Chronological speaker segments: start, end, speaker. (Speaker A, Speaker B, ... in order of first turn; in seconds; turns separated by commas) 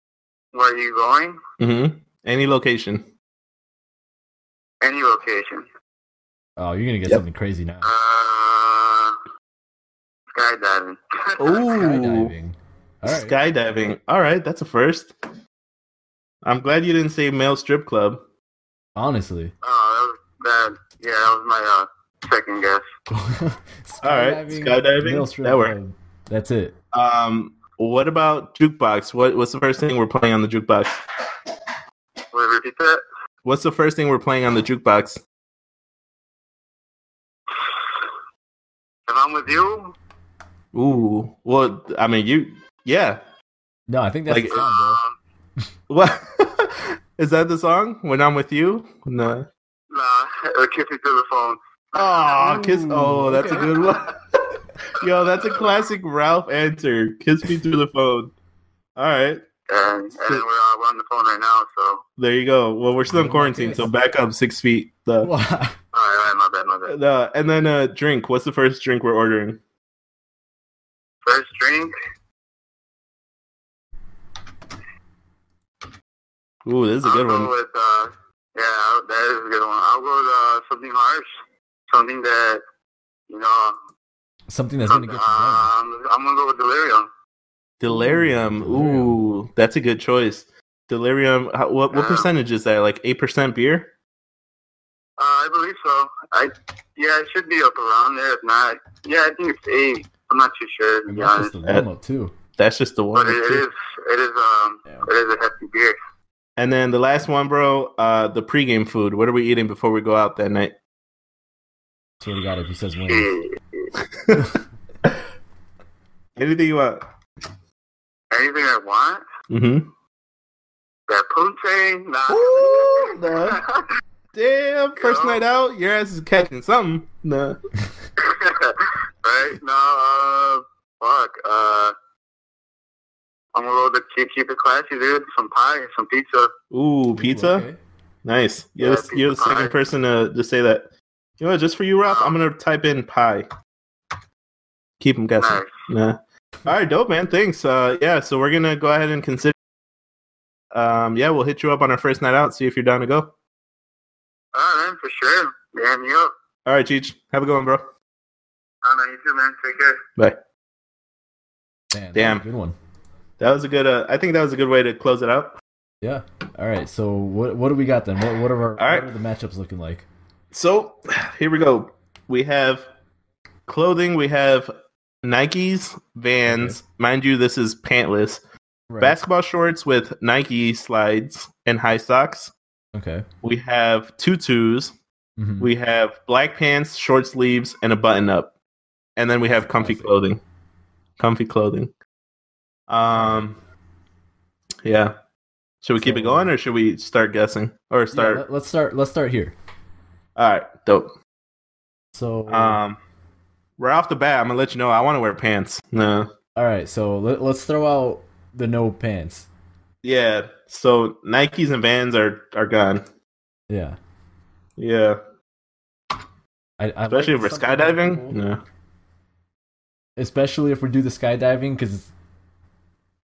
Speaker A: 0.5-1.4, Speaker B: 1.6-3.0, Speaker A: 4.8-5.6, Speaker C: 6.6-7.9, Speaker A: 7.8-9.2, Speaker A: 10.3-11.6, Speaker B: 11.4-12.3, Speaker C: 11.6-13.4, Speaker B: 13.1-15.1, Speaker B: 16.4-18.2, Speaker C: 18.9-19.5, Speaker A: 19.6-22.9, Speaker C: 23.1-26.8, Speaker B: 24.0-25.7, Speaker B: 26.9-31.0, Speaker A: 32.3-33.0, Speaker B: 33.4-35.2, Speaker A: 39.1-39.9, Speaker B: 40.7-43.2, Speaker C: 43.9-45.0, Speaker B: 44.3-44.6, Speaker A: 44.5-45.1, Speaker B: 45.9-49.5, Speaker A: 49.9-52.3, Speaker B: 51.9-54.4, Speaker C: 52.4-53.9, Speaker B: 54.9-58.3, Speaker B: 59.0-59.4, Speaker A: 59.7-62.0, Speaker B: 62.2-65.3, Speaker C: 63.1-63.9, Speaker C: 65.2-65.8, Speaker A: 65.9-66.9, Speaker B: 66.9-69.6, Speaker A: 71.2-71.9, Speaker B: 76.6-77.5, Speaker A: 77.0-81.3, Speaker A: 81.9-82.6, Speaker A: 83.3-83.8, Speaker C: 84.5-85.7, Speaker A: 84.9-87.1, Speaker B: 87.8-93.9, Speaker C: 87.9-89.2, Speaker A: 91.9-92.3, Speaker A: 95.2-101.5, Speaker C: 101.1-102.3, Speaker B: 102.6-103.7, Speaker A: 103.1-106.0, Speaker B: 106.6-110.7, Speaker C: 112.2-113.3, Speaker A: 113.0-113.9, Speaker B: 116.4-117.0, Speaker A: 118.3-119.2, Speaker B: 119.5-119.9, Speaker A: 121.1-123.9, Speaker B: 122.3-123.6, Speaker B: 124.3-127.6, Speaker A: 125.0-125.4, Speaker A: 128.2-131.9, Speaker A: 133.5-136.5, Speaker B: 136.7-137.7, Speaker C: 137.2-137.8, Speaker B: 138.2-140.9, Speaker A: 138.8-139.8, Speaker B: 141.4-143.5, Speaker A: 142.0-142.3, Speaker B: 145.0-149.6, Speaker A: 145.4-145.8, Speaker B: 150.7-153.3, Speaker A: 154.5-156.3, Speaker B: 156.7-157.9, Speaker A: 158.8-160.0, Speaker C: 161.9-162.8, Speaker B: 162.1-162.4, Speaker B: 163.4-165.6, Speaker C: 166.0-170.0, Speaker B: 168.8-169.1, Speaker B: 170.5-172.9, Speaker B: 173.7-178.4, Speaker C: 176.4-176.8, Speaker C: 178.9-179.2, Speaker B: 179.0-182.5, Speaker C: 182.9-183.2, Speaker B: 183.4-184.9, Speaker C: 185.4-185.7, Speaker B: 185.6-188.5, Speaker B: 189.2-190.4, Speaker C: 189.5-190.2, Speaker B: 191.2-191.9, Speaker B: 192.9-193.6, Speaker C: 193.1-193.4, Speaker B: 194.8-195.2, Speaker B: 195.8-198.4, Speaker C: 196.0-196.5, Speaker C: 198.1-199.6, Speaker B: 200.3-201.1, Speaker C: 202.1-202.8, Speaker B: 202.5-203.0, Speaker B: 203.8-206.3, Speaker C: 206.6-209.5, Speaker B: 210.0-213.0, Speaker C: 213.7-214.0, Speaker B: 214.8-215.2, Speaker C: 216.8-218.4, Speaker B: 217.1-218.6, Speaker C: 220.2-222.1